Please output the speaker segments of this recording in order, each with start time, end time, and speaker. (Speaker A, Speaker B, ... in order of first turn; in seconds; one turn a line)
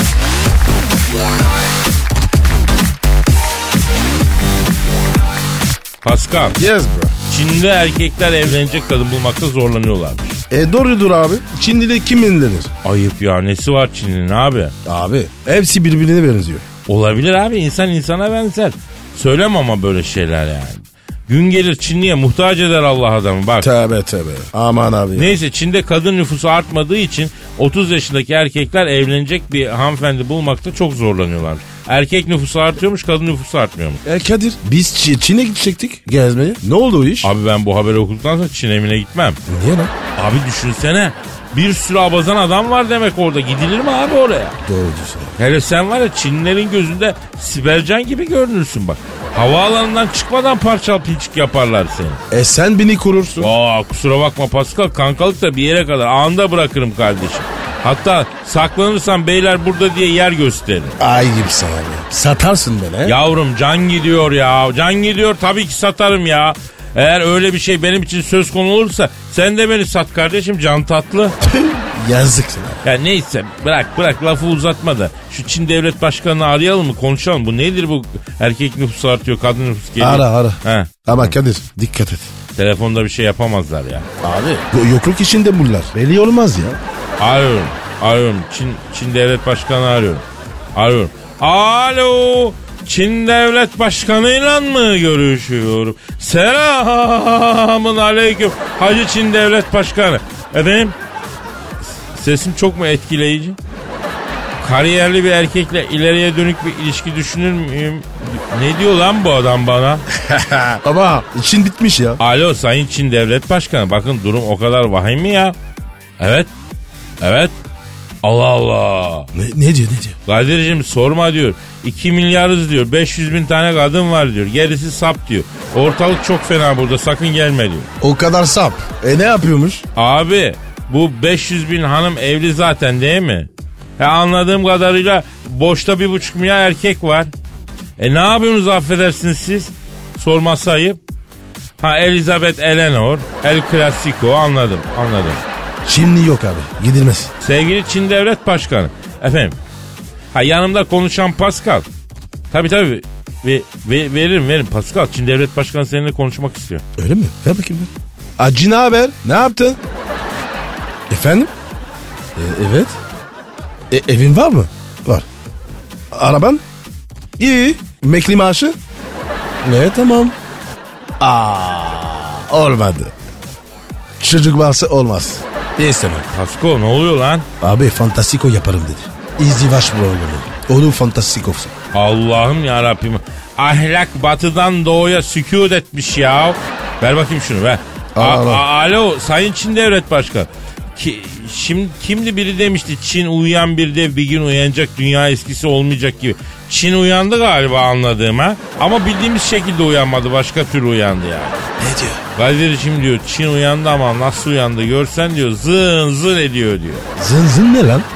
Speaker A: 6.0-6.6
Speaker B: 6.6-7.2
Speaker A: 7.3-10.4
Speaker B: 10.5-12.7
Speaker A: 12.8-14.7
Speaker B: 14.9-16.6
Speaker A: 16.9-23.7
Speaker B: 23.6-25.4
Speaker A: 25.1-34.0
Speaker B: 34.0-37.3
Speaker A: 37.2-39.4
Speaker B: 39.5-39.9
Speaker A: 40.2-44.6
Speaker B: 44.7-45.4
Speaker A: 45.4-52.2
Speaker B: 52.3-53.5
Speaker A: 53.4-61.0
Speaker B: 61.0-63.2
Speaker A: 63.0-71.4
Speaker B: 71.5-72.8
Speaker A: 72.8-81.4
Speaker B: 80.0-82.3
Speaker A: 82.6-84.1
Speaker B: 84.2-86.8
Speaker A: 87.2-90.2
Speaker A: 90.8-101.0
Speaker A: 102.1-103.6
Speaker A: 104.6-110.0
Speaker B: 110.3-112.2
Speaker A: 112.2-115.5
Speaker A: 116.2-116.5
Speaker A: 117.2-117.5
Speaker A: 118.2-119.3
Speaker B: 119.3-120.2
Speaker A: 120.3-127.9
Speaker B: 128.0-129.8
Speaker A: 130.0-137.3
Speaker A: 138.0-141.0
Speaker A: 141.8-145.4
Speaker B: 145.8-147.3
Speaker A: 147.4-149.6
Speaker A: 150.3-151.9
Speaker A: 152.5-156.8
Speaker B: 157.0-159.8
Speaker B: 161.1-161.5
Speaker B: 162.4-163.0
Speaker B: 163.9-165.2
Speaker B: 166.1-166.6
Speaker B: 167.4-168.8
Speaker B: 169.6-170.3
Speaker B: 171.2-173.1
Speaker B: 174.2-176.3
Speaker A: 176.3-177.5
Speaker B: 177.6-181.7
Speaker A: 181.9-201.7
Speaker B: 188.2-188.7
Speaker B: 201.8-202.2
Speaker A: 202.4-207.1
Speaker B: 207.2-208.1